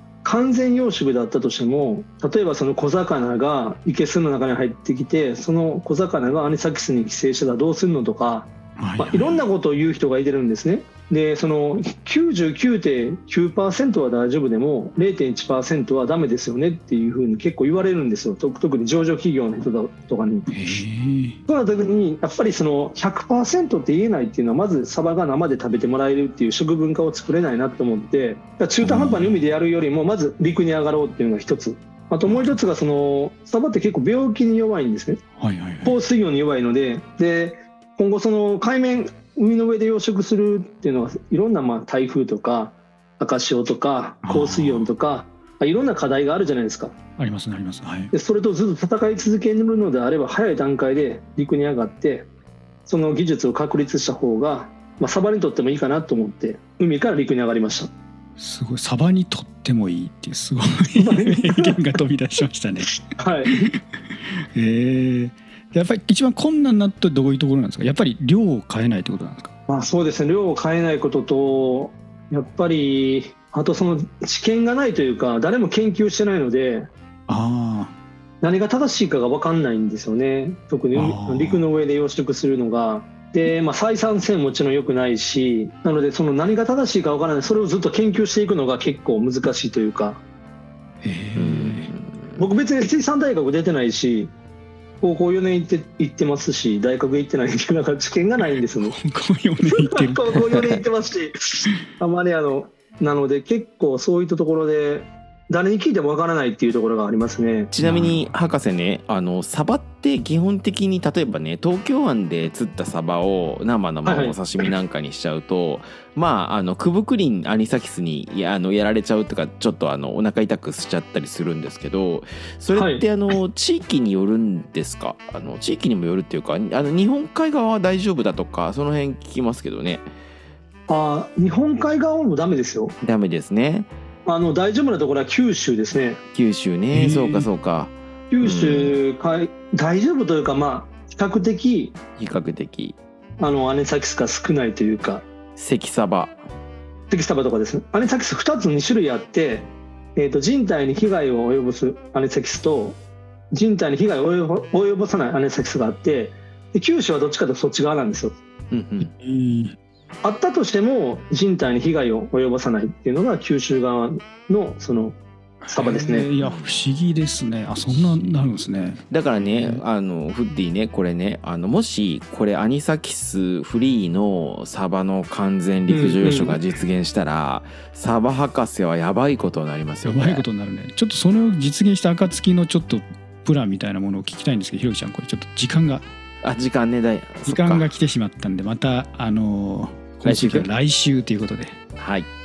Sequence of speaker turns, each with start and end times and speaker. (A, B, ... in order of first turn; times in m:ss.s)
0:00.2-0:20.8 A
0:08.8-0:09.4 B
0:20.5-0:21.4 B
0:21.5-0:35.2 A
0:28.8-0:29.4 B
0:32.2-0:32.6 B
0:35.4-0:36.0 B
0:35.8-0:46.9 A
0:44.2-0:44.9 B
0:47.2-0:48.1 B
0:48.1-0:52.3 A
0:52.9-0:57.9 A
0:58.4-1:03.8 B
1:01.0-1:01.8 A
1:03.2-1:03.6 A
1:04.5-1:09.5 B
1:09.7-1:16.9 A
1:17.3-1:18.0 B
1:18.4-1:30.2 A
1:20.9-1:21.7 B
1:31.0-1:31.9 B
1:31.4-1:32.4 C
1:32.4-1:34.3 A
1:35.0-1:39.0 A
1:38.6-1:40.8 B
1:39.6-1:47.7 A
1:47.7-2:10.1 C
1:47.8-1:48.4 B
1:54.0-1:54.5 A
2:02.7-2:03.1 A
2:10.9-2:12.9 A
2:13.0-2:13.9 C
2:14.3-2:16.2 A
2:16.3-2:19.0 C
2:16.9-2:17.5 B
2:18.3-2:22.0 A
2:22.2-2:23.0 C
2:23.4-2:25.2 A
2:25.6-2:26.4 C
2:27.1-2:33.0 A
2:33.5-2:38.4 A
2:38.7-2:39.1 C
2:39.0-2:39.8 B
2:40.2-2:45.2 A
2:45.6-2:49.8 B
2:45.7-2:46.3 A
2:46.4-2:46.8 C
2:49.1-3:00.4 C
2:55.9-2:56.6 A
3:00.0-3:06.0 B
3:06.4-3:07.9 C
3:07.5-3:11.8 B
3:10.2-3:10.7 C
3:12.0-3:12.3 C